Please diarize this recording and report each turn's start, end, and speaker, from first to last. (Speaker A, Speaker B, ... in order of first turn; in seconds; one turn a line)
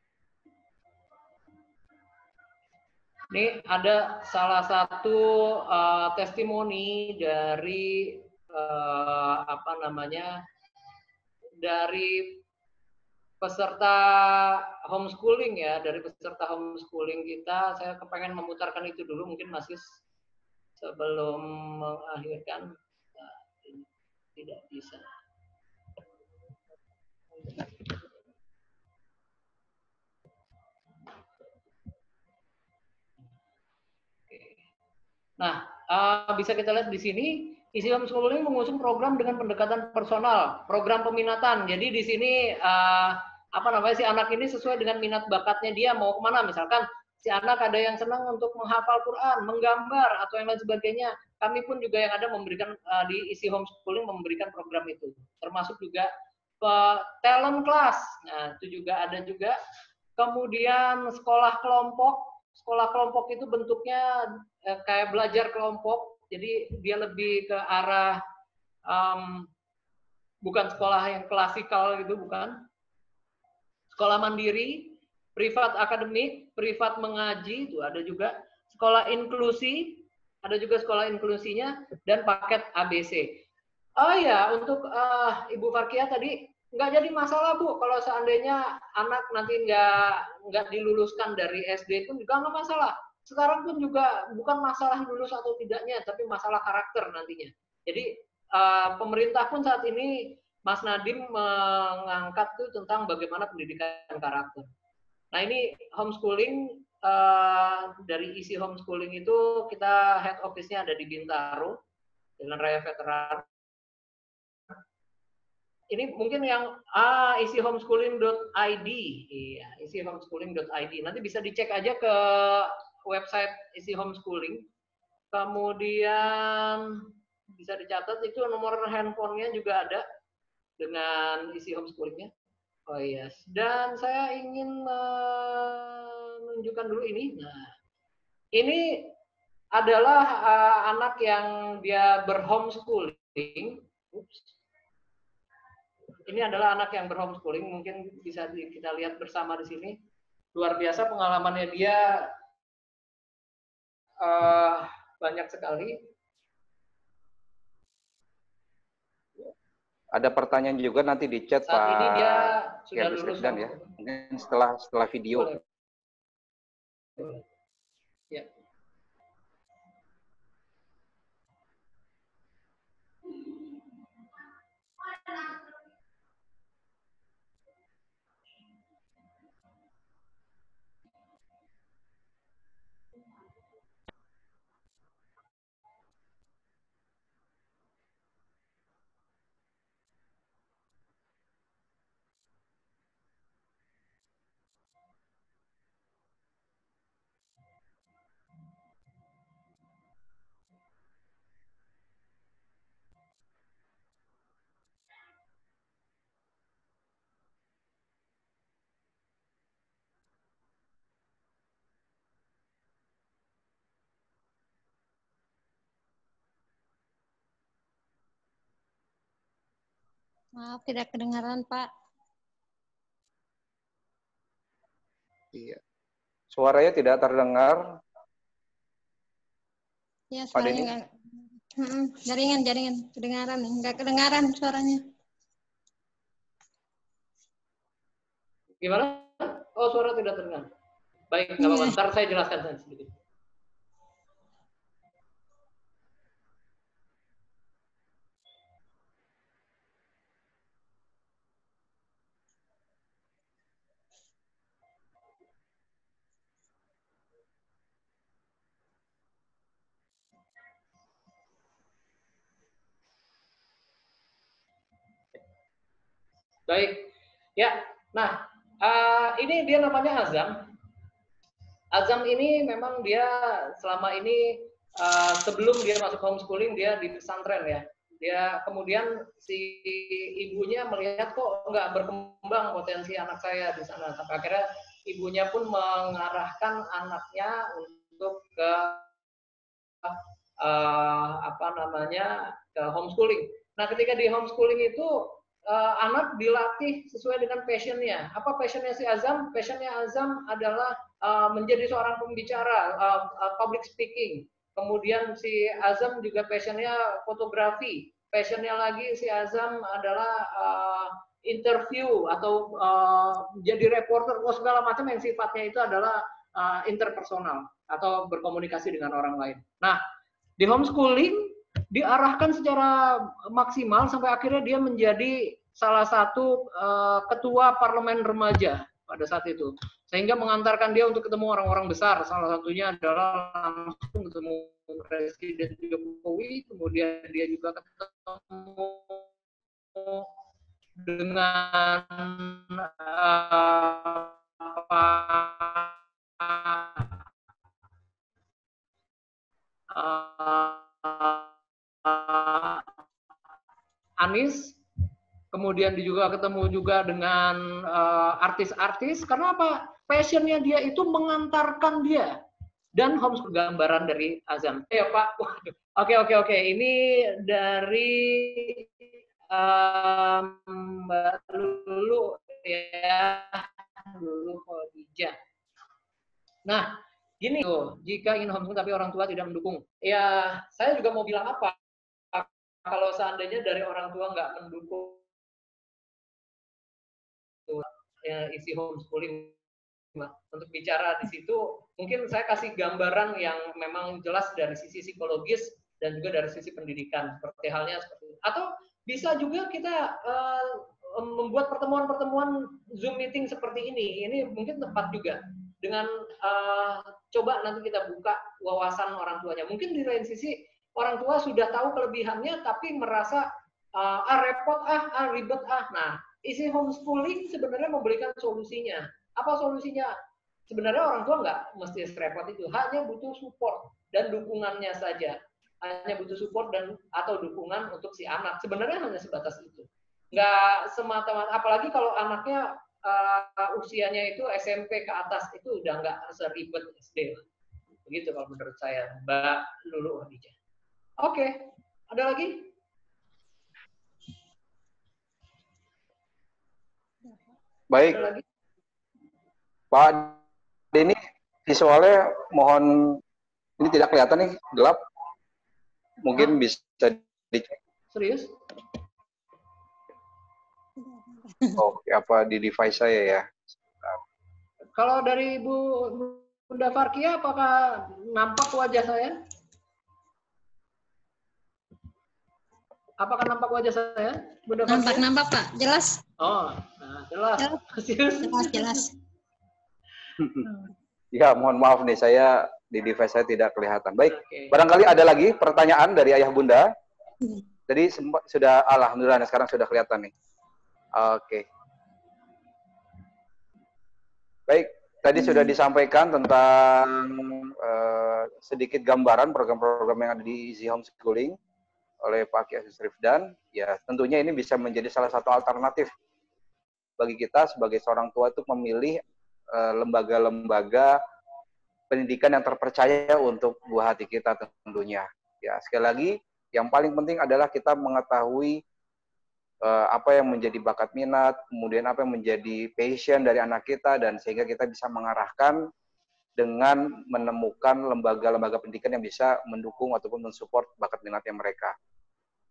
Speaker A: 3.3-10.4
Speaker A: 11.6-12.4
Speaker A: 13.4-20.0
Speaker A: 20.8-25.1
Speaker A: 27.4-27.9
Speaker A: 34.3-34.6
Speaker A: 35.4-56.1
Speaker A: 56.6-59.6
Speaker A: 60.2-68.2
Speaker A: 68.9-69.5
Speaker A: 70.5-72.6
Speaker A: 73.9-83.4
Speaker A: 84.0-104.7
Speaker A: 105.3-111.8
Speaker A: 112.4-113.5
Speaker A: 115.9-124.7
Speaker A: 125.3-130.1
Speaker A: 130.8-132.3
Speaker A: 132.9-137.7
Speaker A: 138.6-139.2
Speaker A: 139.8-144.5
Speaker A: 146.3-150.0
Speaker A: 150.6-152.3
Speaker A: 154.2-156.0
Speaker B: 160.1-165.5
Speaker A: 161.7-163.9
Speaker A: 167.2-167.4
Speaker C: 220.6-221.9
Speaker B: 225.5-225.8
Speaker B: 226.5-227.8
Speaker C: 230.3-235.1
Speaker B: 230.6-230.9
Speaker A: 238.8-240.7
Speaker A: 241.3-243.2
Speaker C: 241.6-241.9
Speaker A: 266.7-270.6
Speaker A: 271.9-289.1
Speaker A: 290.1-320.0
Speaker A: 320.6-339.3
Speaker A: 339.9-340.3
Speaker A: 341.0-347.2
Speaker A: 349.9-351.5
Speaker A: 352.0-352.9
Speaker A: 354.2-354.8
Speaker A: 355.5-362.4
Speaker A: 363.0-368.9
Speaker A: 369.5-375.4
Speaker A: 376.7-381.8
Speaker A: 382.3-385.2
Speaker A: 387.7-389.6
Speaker A: 390.1-420.1
Speaker A: 420.7-437.4
Speaker A: 438.1-440.6
Speaker A: 441.2-442.7
Speaker B: 447.9-448.3
Speaker A: 448.1-448.4
Speaker B: 449.9-450.4
Speaker B: 450.9-453.2
Speaker B: 453.8-455.0
Speaker B: 456.2-457.8
Speaker A: 458.1-458.5
Speaker C: 461.0-461.8
Speaker B: 461.8-464.2
Speaker A: 465.0-469.4
Speaker A: 473.2-475.2
Speaker C: 474.9-476.2
Speaker A: 476.4-479.1
Speaker C: 478.4-479.1
Speaker B: 480.4-480.7
Speaker B: 481.3-486.9
Speaker A: 484.3-484.8
Speaker B: 487.9-490.3
Speaker B: 491.1-491.7
Speaker B: 494.7-501.6
Speaker B: 502.2-506.1
Speaker B: 507.2-509.2
Speaker B: 509.7-511.2
Speaker B: 512.1-518.8
Speaker B: 519.8-525.8
Speaker B: 526.6-532.0